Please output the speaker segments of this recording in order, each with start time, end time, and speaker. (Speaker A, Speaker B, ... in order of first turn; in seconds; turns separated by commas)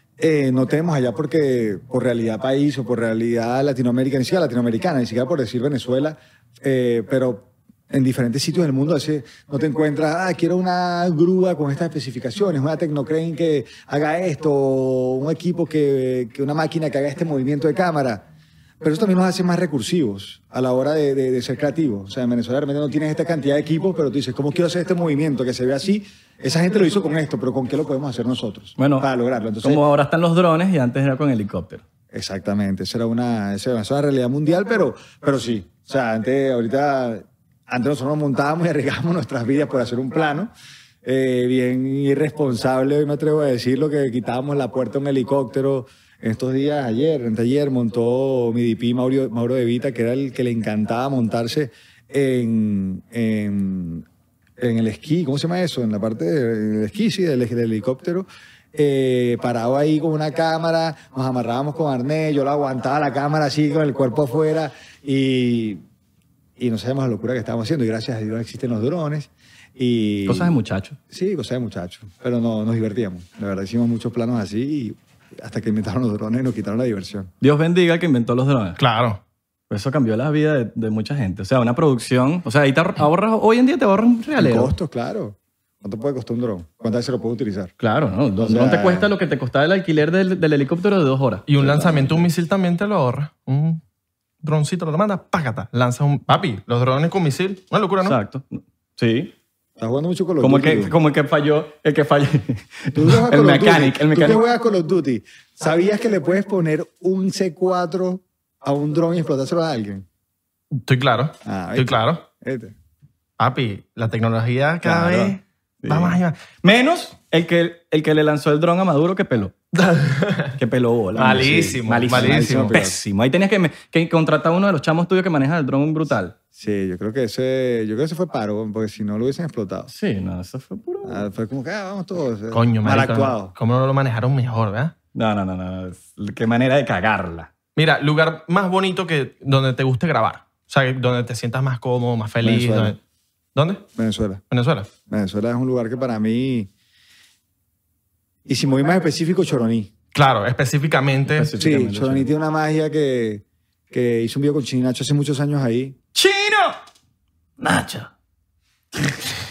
Speaker A: 0.2-18.2, Speaker A: 18.8-29.8, Speaker B: 28.8-29.1, Speaker B: 29.6-31.8, Speaker A: 32.1-40.5, Speaker A: 41.0-54.0, Speaker A: 54.6-65.8, Speaker A: 66.6-70.5, Speaker B: 70.2-71.0, Speaker A: 71.1-77.3, Speaker B: 77.4-78.8, Speaker C: 78.8-79.2, Speaker B: 79.7-84.7, Speaker A: 84.4-87.7, Speaker B: 87.8-92.3, Speaker A: 88.4-89.1, Speaker C: 91.5-93.8, Speaker C: 94.4-98.2, Speaker B: 98.0-99.3, Speaker A: 99.8-100.9, Speaker B: 100.4-104.4, Speaker A: 102.9-110.0, Speaker C: 110.7-112.2, Speaker A: 111.4-112.7, Speaker C: 113.4-116.4, Speaker A: 114.9-115.3, Speaker B: 114.9-115.2, Speaker B: 115.8-119.5, Speaker C: 119.7-120.5, Speaker B: 120.6-126.3, Speaker C: 121.2-122.8, Speaker A: 121.2-123.0, Speaker A: 126.5-129.9, Speaker B: 129.9-131.2, Speaker A: 131.0-133.5, Speaker C: 132.5-134.9, Speaker B: 135.1-137.5, Speaker C: 137.8-143.0, Speaker A: 142.4-142.9, Speaker C: 143.5-143.8, Speaker A: 143.9-144.4, Speaker C: 144.5-144.9, Speaker A: 145.1-146.7, Speaker A: 148.5-149.9, Speaker C: 150.1-151.5, Speaker B: 151.3-152.3, Speaker A: 151.6-156.0, Speaker B: 156.1-156.8, Speaker B: 157.6-158.1, Speaker B: 158.9-159.2